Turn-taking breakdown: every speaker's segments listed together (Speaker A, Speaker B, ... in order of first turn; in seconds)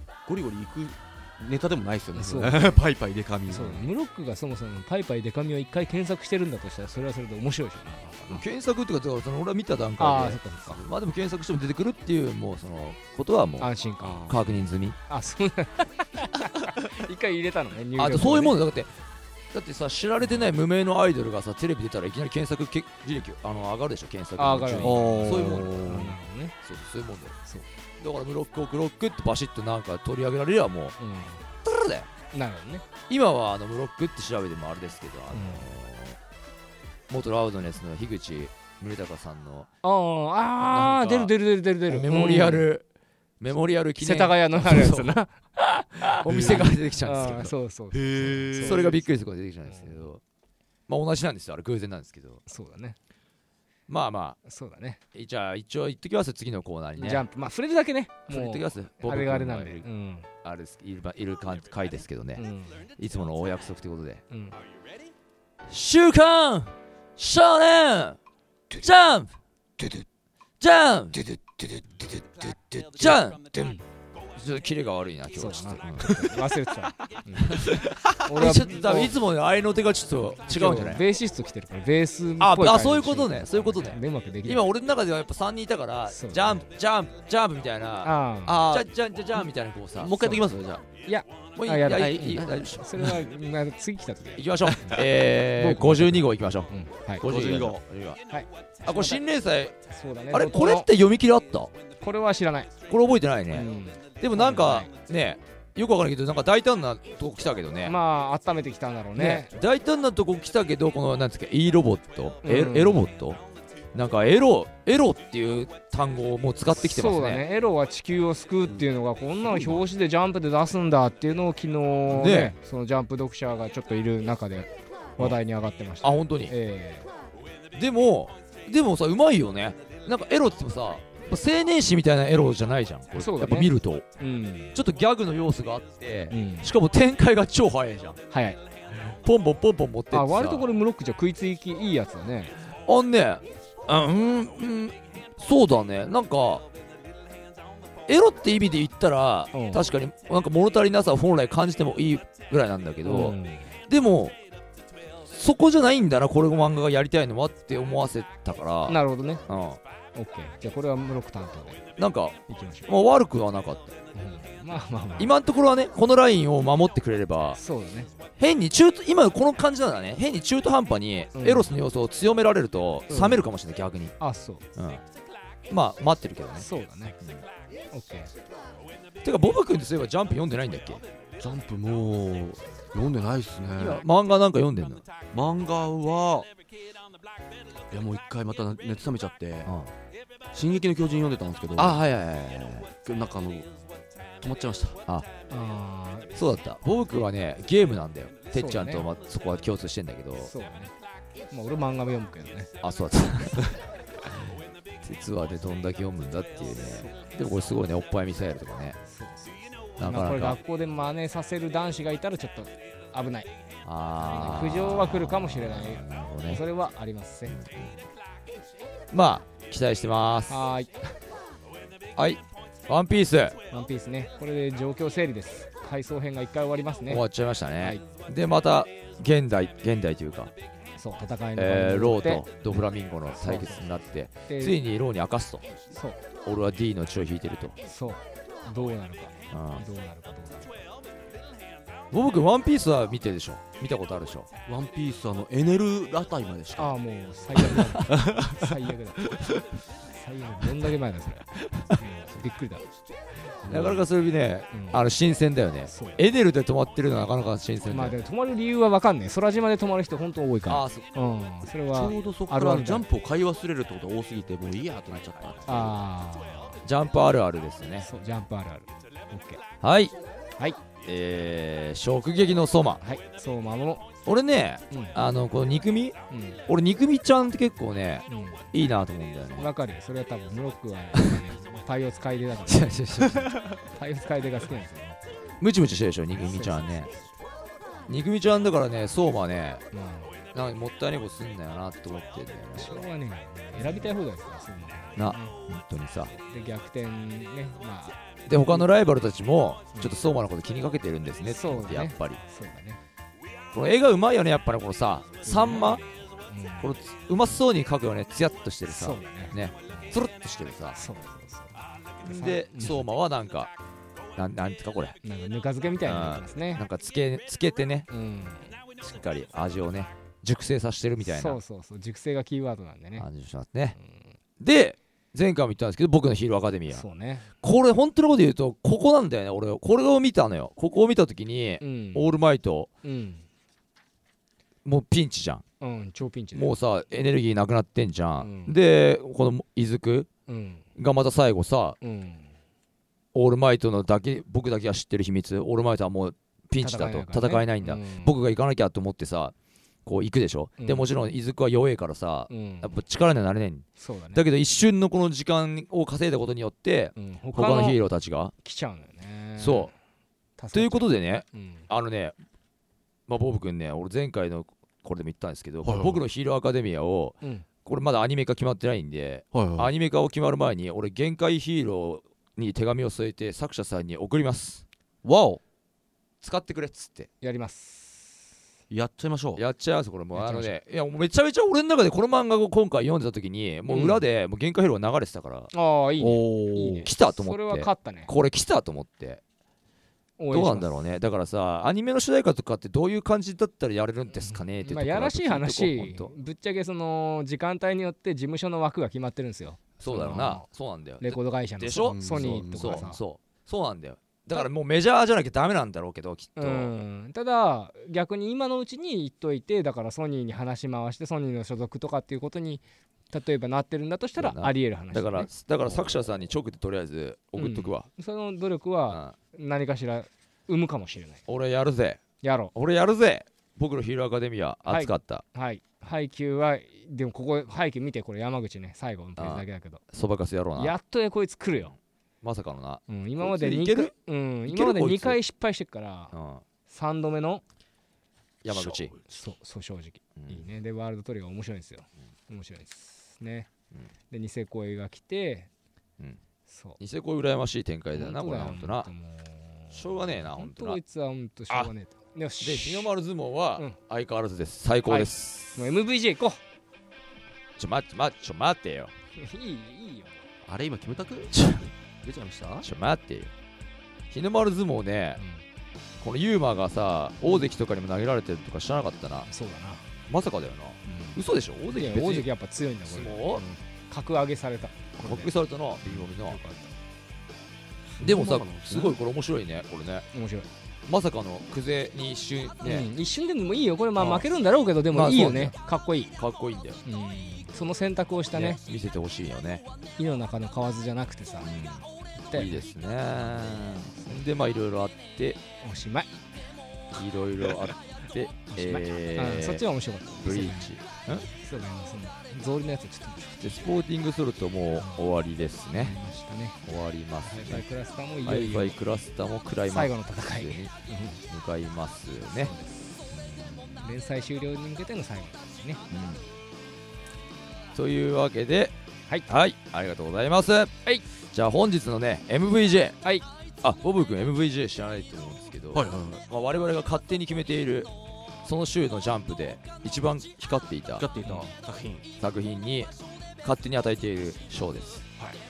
Speaker A: 0.3-3.9, 14.0-14.5, 24.8-26.2, 46.3-46.6, 47.9-49.0, 88.4-88.9, 90.0-90.8, 91.9-93.2, 97.2-97.8, 119.5-119.8, 181.4-184.0, 185.3-186.5, 187.9-189.7, 190.5-192.1, 193.0-193.7, 194.4-195.0, 244.7-247.0, 247.6-248.8, 253.6-254.1, 261.9-266.0, 365.9-366.2, 369.5-369.9, 375.2-375.6, 378.9-379.6, 386.2-387.1, 402.1-403.1, 438.9-439.2, 460.6-461.6, 462.2-462.9, 478.2-479.2, 525.9-526.4, 531.2-532.3
Speaker B: 2.1-2.8, 3.5-8.4, 10.0-10.8, 13.6-14.3, 15.1-18.6, 24.4-26.6, 31.0-31.5, 32.3-32.9, 35.3-35.7, 39.8-42.7, 44.0-49.0, 49.7-50.0, 52.5-53.0, 54.4-55.0, 57.0-60.3, 62.4-62.9, 64.3-64.6, 75.3-79.2, 80.5-84.6, 86.1-86.7, 88.0-88.6, 91.0-94.9, 95.6-97.2, 98.3-99.2, 99.9-100.9, 102.0-102.7, 103.5-104.9, 107.8-109.5, 112.4-113.1, 116.8-127.1, 133.1-134.8, 136.3-136.7, 138.3-138.6, 140.1-142.6, 149.5-149.9, 153.0-153.7, 158.9-159.4, 160.1-161.8, 162.5-162.9, 164.1-165.3, 167.6-168.1, 171.3-171.7, 173.1-173.4, 174.2-174.6, 176.6-177.2, 177.9-178.3, 195.5-196.6, 198.5-199.1, 200.4-200.9, 201.5-202.7, 206.8-207.2, 209.1-213.5, 214.2-217.6, 220.5-221.1, 223.7-227.2, 231.0-232.4, 233.4-233.9, 234.5-234.8, 235.9-236.2, 237.8-240.7, 246.8-249.4, 250.1-252.9, 254.7-255.0, 255.9-256.2, 257.9-263.0, 265.7-266.8, 268.0-269.6, 273.0-274.1, 274.9-275.2, 276.3-276.6, 278.3-278.7, 279.6-285.2, 286.4-287.2, 289.9-290.4, 292.7-295.6, 296.3-298.9, 301.5-303.0, 305.4-306.9, 308.9-310.1, 310.9-313.1, 315.2-316.8, 318.1-318.8, 321.2-323.3, 324.0-324.3, 326.9-327.5, 331.8-332.3, 333.0-333.4, 335.8-336.7, 338.4-338.8, 340.5-340.9, 342.0-342.6, 346.8-348.3, 350.8-351.1, 352.5-353.0, 354.0-354.4, 357.1-358.0, 358.6-359.9, 360.6-361.9, 377.4-378.4, 380.4-380.7, 383.9-384.2, 385.7-388.3, 390.4-390.9, 394.3-400.6, 401.2-403.2, 406.6-416.1, 417.6-421.4, 422.4-422.7, 424.9-430.0, 430.8-431.9, 433.1-436.3, 436.9-437.6, 439.2-443.7, 444.3-445.7, 446.7-447.0, 448.1-453.1, 455.1-456.6, 459.4-460.4, 465.4-465.6, 467.4-467.7, 469.5-470.1, 471.1-476.9, 480.3-480.7, 482.8-486.3, 487.0-488.8, 490.2-491.7, 492.4-494.4, 495.8-496.3, 498.7-503.5, 505.9-506.8, 507.4-508.9, 509.9-511.4, 512.6-513.3, 514.0-516.0, 531.5-531.7
Speaker C: 8.3-13.7, 14.3-15.0, 17.9-18.9, 19.5-25.8, 26.6-27.4, 28.0-30.9, 31.6-32.1, 33.1-36.2, 37.1-39.7, 40.8-41.3, 41.9-42.9, 43.4-45.2, 46.0-47.5, 48.6-50.2, 50.9-52.4, 53.9-54.4, 55.1-57.2, 58.3-59.9, 60.4-62.4, 63.0-64.2, 65.7-68.2, 68.8-70.0, 70.6-73.8, 74.3-76.3, 77.4-81.0, 82.4-90.3, 91.6-92.9, 94.4-98.2, 98.8-99.8, 100.3-101.7, 102.9-103.7, 104.2-108.0, 109.2-113.4, 113.9-117.4, 122.1-122.5, 126.0-126.5, 127.7-134.1, 134.8-138.2, 139.1-140.6, 142.9-146.6, 148.1-153.4, 153.9-154.4, 155.2-159.8, 162.0-164.0, 165.2-167.6, 168.4-174.2, 174.8-175.0, 175.7-176.6, 179.2-181.0, 183.8-185.1, 189.7-189.9, 191.8-192.9, 196.3-200.5, 202.8-203.8, 205.0-209.0, 210.0-210.6, 213.8-216.6, 217.5-218.0, 219.1-220.6, 222.2-223.6, 227.1-230.5, 231.6-235.7, 236.4-237.8, 239.5-239.8, 242.1-244.5, 253.7-258.2, 260.7-261.1, 266.8-268.1, 269.8-270.1, 271.1-273.0, 274.3-276.1, 276.7-279.7, 282.6-283.8, 285.6-287.1, 288.1-289.8, 290.5-293.0, 293.8-294.1, 295.1-296.3, 298.5-302.4, 303.7-306.0, 306.8-311.0, 312.2-313.7, 314.4-315.2, 316.0-318.1, 319.0-321.6, 323.2-323.9, 324.6-327.1, 327.6-332.9, 334.9-335.6, 336.5-340.3, 340.9-342.0, 343.3-349.5, 350.1-358.5, 359.6-359.9, 360.7-362.4, 363.3-374.8, 376.4-377.3, 379.6-385.7, 387.0-389.4, 390.5-396.3, 400.0-406.9, 414.4-418.1, 419.1-419.4, 421.5-422.2, 422.8-425.4, 429.4-430.9, 432.4-434.1, 434.7-435.4, 436.3-436.6, 438.6-439.1, 440.4-440.6, 447.0-449.1, 449.9-451.0, 452.6-455.8, 457.8-459.1, 461.5-461.9, 462.8-463.5, 464.3-465.4, 466.2-469.5, 470.3-472.5, 473.1-473.6, 475.2-476.6, 478.2-480.3, 481.1-483.1, 484.2-484.5, 485.1-485.8, 486.4-487.0, 488.5-489.8, 491.6-495.6, 497.1-499.9, 500.4-501.5, 503.5-506.2, 506.9-507.8, 508.4-510.9, 511.5-512.7, 513.3-514.0, 516.1-516.4, 517.9-518.9, 519.5-520.9, 521.5-523.2, 523.8-528.1, 528.6-531.3, 532.4-535.2